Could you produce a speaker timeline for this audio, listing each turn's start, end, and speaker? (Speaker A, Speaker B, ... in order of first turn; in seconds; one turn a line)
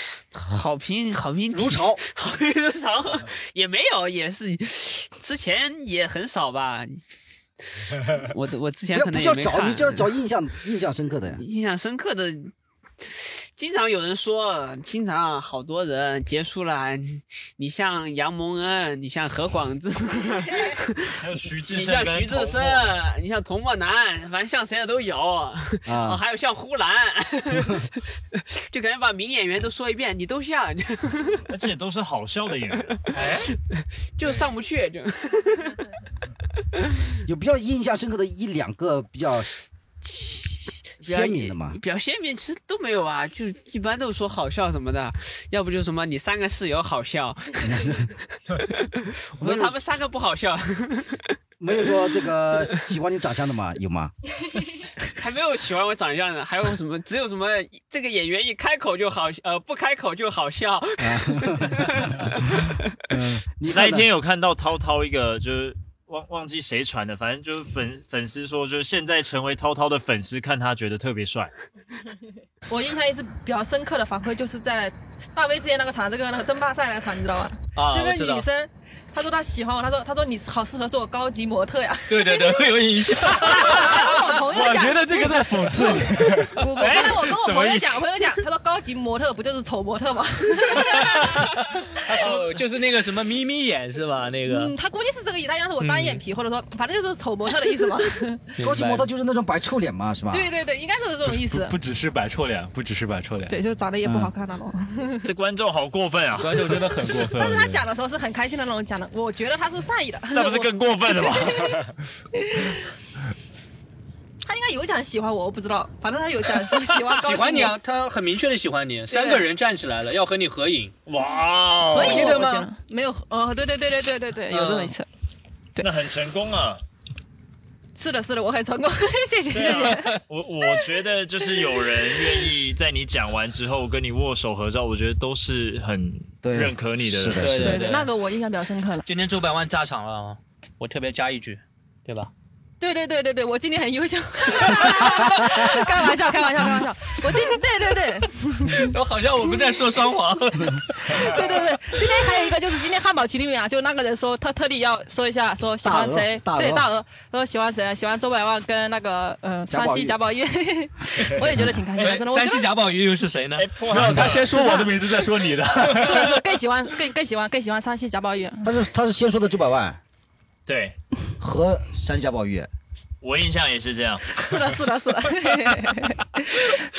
Speaker A: 0.3-7.0
Speaker B: 1.5-2.0
Speaker A: 7.8-10.1
Speaker B: 8.9-11.4
Speaker A: 11.3-31.5
Speaker C: 21.1-23.0
Speaker B: 25.9-26.2
Speaker C: 31.5-33.1
Speaker A: 33.1-35.8
Speaker D: 33.2-33.5
Speaker B: 37.3-39.5
Speaker B: 40.0-41.8
Speaker A: 41.0-51.4
Speaker B: 47.6-48.1
Speaker B: 49.4-49.8
Speaker B: 51.6-54.1
Speaker A: 55.1-62.8
Speaker B: 61.0-61.9
Speaker B: 63.1-64.1
Speaker C: 63.7-71.5
Speaker E: 72.7-91.5
Speaker D: 77.8-78.5
Speaker D: 82.1-84.4
Speaker F: 84.5-86.7
Speaker D: 86.8-87.2
Speaker C: 86.8-87.9
Speaker D: 90.8-94.7
Speaker E: 94.5-98.4
Speaker D: 95.8-96.2
Speaker D: 98.6-99.1
Speaker B: 98.6-100.5
Speaker E: 100.3-101.8
Speaker F: 101.2-103.6
Speaker E: 103.5-105.3
Speaker B: 104.0-104.3
Speaker C: 105.2-106.8
Speaker F: 106.4-107.8
Speaker E: 107.3-111.8
Speaker C: 110.3-111.9
Speaker E: 112.3-112.9
Speaker E: 114.4-117.8
Speaker D: 117.1-120.9
Speaker E: 119.1-119.5
Speaker C: 121.1-122.5
Speaker E: 121.9-125.1
Speaker D: 121.9-122.7
Speaker D: 124.5-125.0
Speaker C: 125.8-126.8
Speaker E: 128.0-130.1
Speaker C: 129.5-137.8
Speaker B: 136.4-137.7
Speaker D: 137.3-138.1
Speaker E: 137.6-139.1
Speaker D: 139.1-142.3
Speaker E: 142.8-148.8
Speaker D: 148.7-151.8
Speaker E: 151.1-162.7
Speaker B: 155.8-156.9
Speaker B: 159.7-160.2
Speaker B: 161.5-161.8
Speaker D: 162.0-163.8
Speaker C: 163.6-164.6
Speaker F: 163.9-166.4
Speaker B: 164.0-164.3
Speaker E: 164.5-164.9
Speaker E: 165.8-168.7
Speaker B: 168.6-170.0
Speaker C: 170.7-171.0
Speaker B: 171.4-172.7
Speaker C: 173.2-174.4
Speaker E: 174.4-176.7